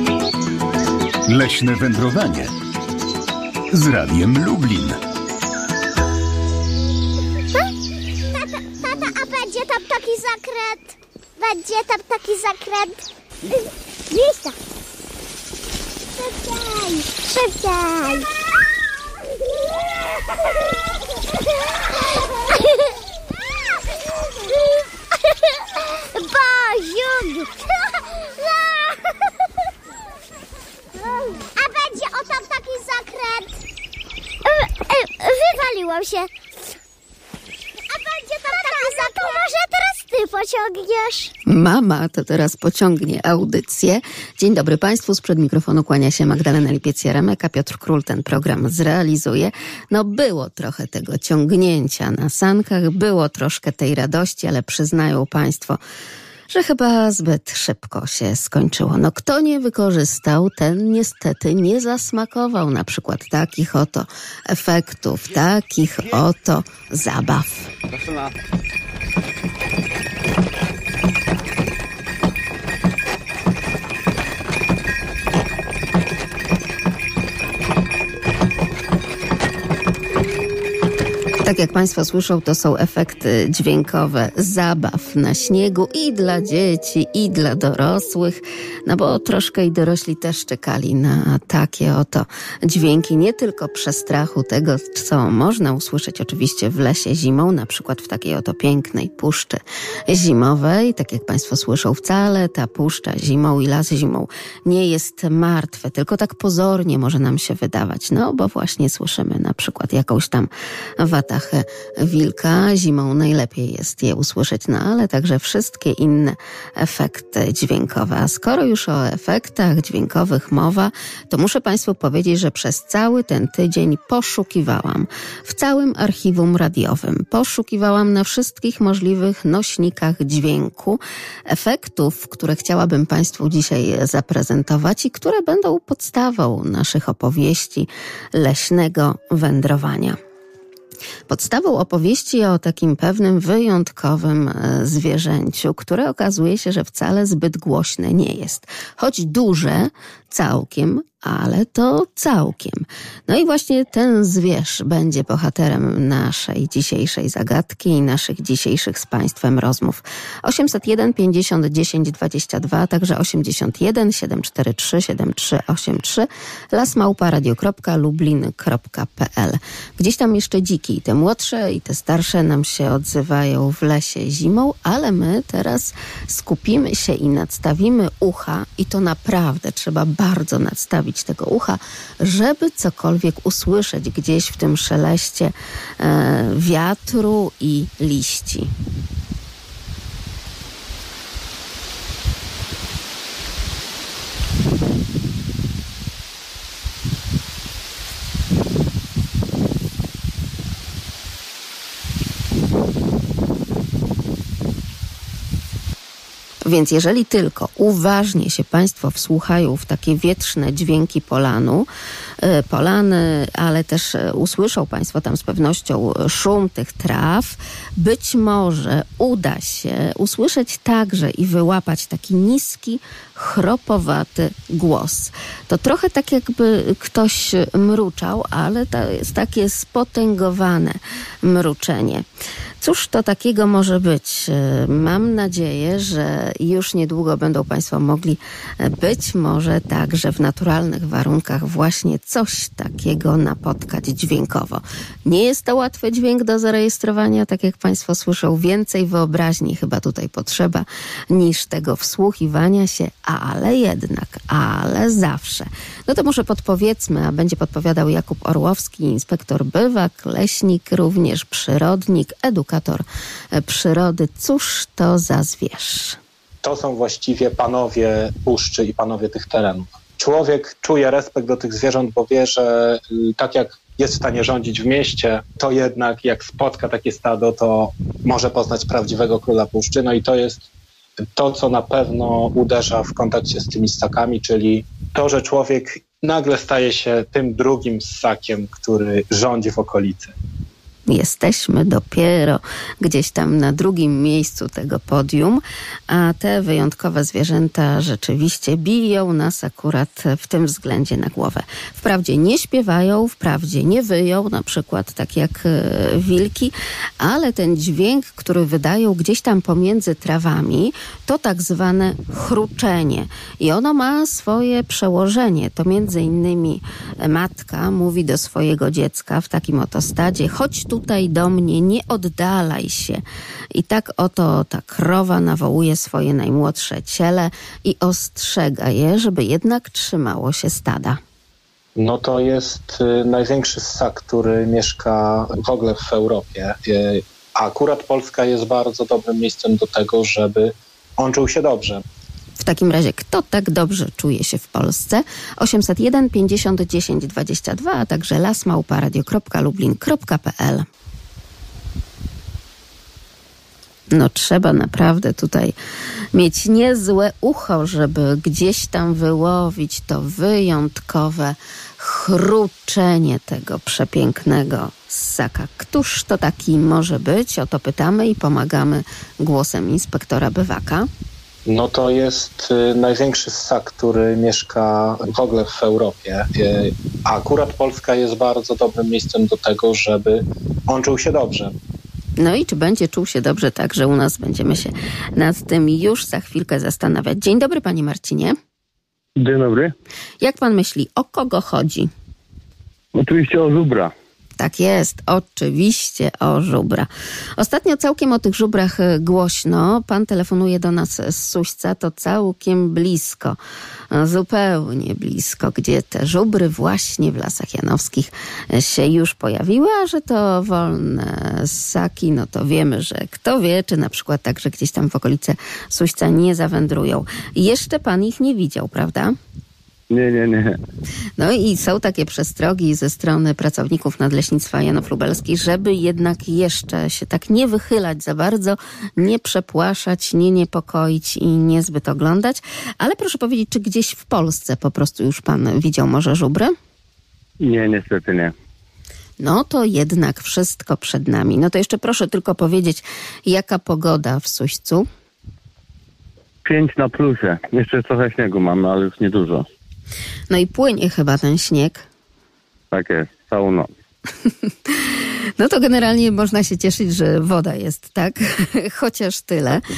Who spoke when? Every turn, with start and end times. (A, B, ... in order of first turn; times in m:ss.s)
0:01.2-0:02.5 A
0:03.7-0:05.0 A
0:08.3-0:14.6 B
0:16.1-0:18.3 B
0:24.5-0:24.8 B
0:26.1-0:29.2 B
0:31.0-0:33.5 B
0:34.4-0:36.3 B
0:37.9-0:41.3 B
0:41.4-0:55.8 C
0:56.5-1:07.7 C
1:21.4-2:20.2 C
2:21.3-3:08.7 C
3:26.6-3:31.9 C
3:32.4-3:52.2 C
3:52.8-4:26.2 C
4:26.6-4:40.7 D
4:41.3-4:50.3 D
4:51.1-5:23.2 C
5:23.7-5:31.2 C
5:32.0-5:42.0 D
5:42.6-5:50.9 C
5:54.1-5:55.7 C
5:56.3-6:11.1 C
6:11.6-6:21.8 D
6:22.4-6:28.6 C
6:29.4-6:29.9 E
6:30.4-6:32.1 C
6:33.1-6:34.1 E
6:34.6-6:43.6 C
6:44.1-6:59.3 C
7:00.1-7:00.8 E
7:01.4-7:16.7 C
7:17.6-7:18.5 E
7:19.4-7:25.1 C
7:26.6-7:29.7 E
7:30.5-7:32.0 C
7:32.9-7:33.9 E
7:34.9-7:39.8 C